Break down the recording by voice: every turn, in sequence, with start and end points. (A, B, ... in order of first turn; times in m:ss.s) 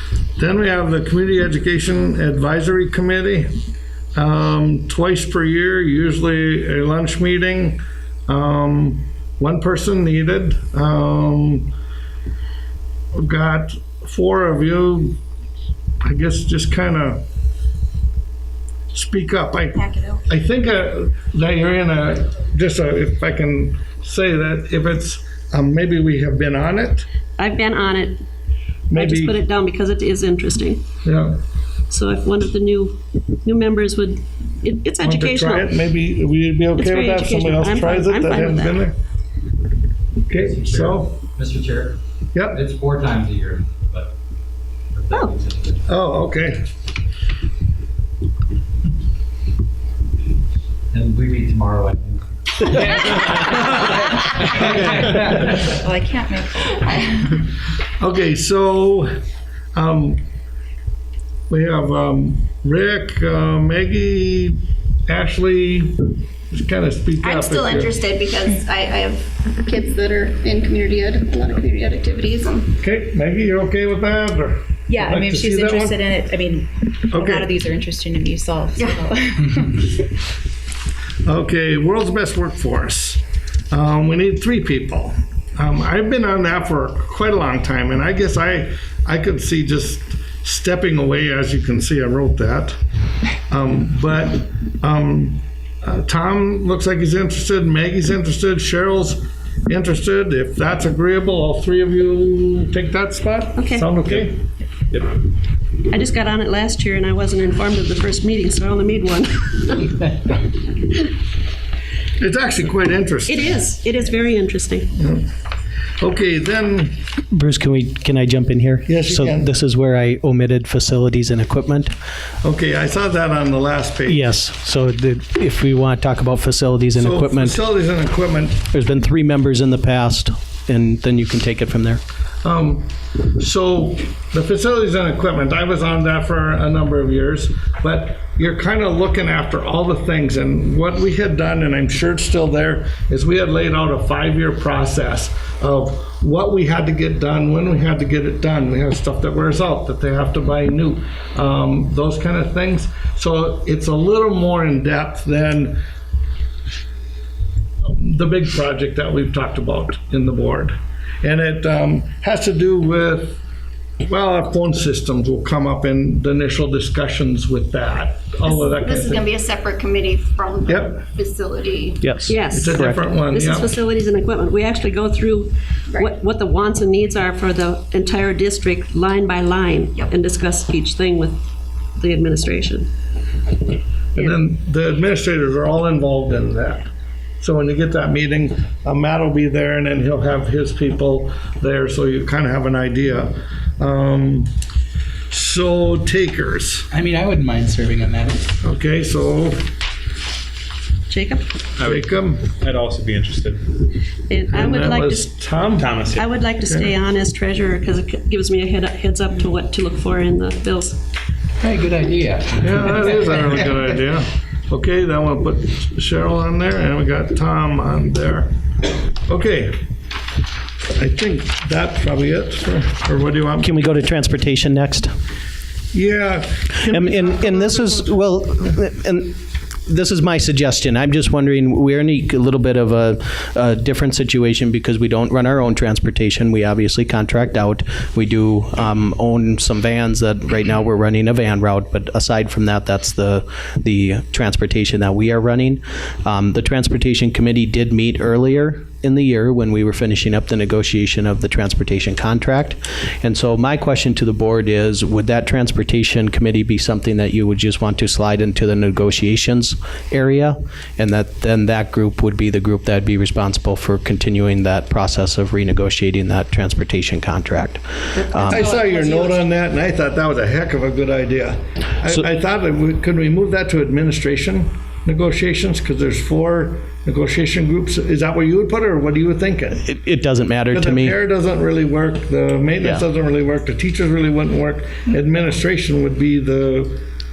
0:00.4-0:03.5 A
0:04.2-0:11.7 A
0:13.1-0:15.2 A
0:16.0-0:17.2 A
0:18.9-0:27.1 A
0:19.8-0:20.2 B
0:27.4-0:28.2 C
0:28.9-0:29.4 A
0:28.9-0:30.8 C
0:31.0-0:31.4 A
0:31.9-0:35.7 C
0:35.0-0:39.0 A
0:36.8-0:38.8 C
0:40.3-0:41.1 A
0:40.4-0:42.0 D
0:42.3-0:42.6 A
0:42.5-0:44.1 D
0:44.9-0:45.9 D
0:45.1-0:45.4 C
0:45.9-0:46.6 A
0:50.9-0:53.7 D
0:55.7-0:57.4 E
0:58.0-0:59.1 A
0:59.8-1:00.2 A
1:01.5-1:07.9 A
1:07.2-1:12.7 B
1:12.8-1:16.0 A
1:14.9-1:19.9 E
1:17.1-1:17.5 A
1:18.8-1:19.0 B
1:21.2-1:32.8 A
1:33.5-1:44.4 A
1:43.6-1:43.9 C
1:45.9-1:50.1 C
1:52.2-1:53.6 A
1:53.3-1:54.9 C
1:55.0-1:55.3 A
1:56.0-1:57.0 A
1:57.3-2:01.9 F
1:58.9-1:59.5 A
2:02.4-2:04.3 A
2:04.0-2:07.6 F
2:07.0-2:08.6 A
2:08.7-2:12.0 F
2:12.4-2:35.8 A
2:37.8-2:43.4 A
2:44.0-2:49.2 A
2:48.4-2:52.0 B
2:50.7-2:51.0 A
2:52.0-2:53.0 F
2:52.3-3:01.4 C
2:52.5-2:53.7 A
3:02.0-3:02.9 C
3:04.1-3:06.9 A
3:07.4-3:14.5 A
3:15.3-3:16.9 A
3:16.9-3:18.5 G
3:18.6-3:19.6 A
3:21.1-3:21.5 C
3:21.8-3:23.7 H
3:21.8-3:22.5 A
3:24.3-3:25.3 C
3:24.5-3:25.9 A
3:25.7-3:26.3 H
3:26.1-3:31.0 C
3:26.7-3:26.9 A
3:31.6-3:33.9 G
3:32.6-3:38.5 A
3:39.3-3:39.8 A
3:41.0-3:43.7 A
3:43.6-3:45.1 F
3:45.9-3:48.1 A
3:46.8-4:28.7 F
4:28.1-4:29.4 B
4:28.5-4:39.8 A
4:39.8-4:41.2 F
4:40.7-4:47.0 A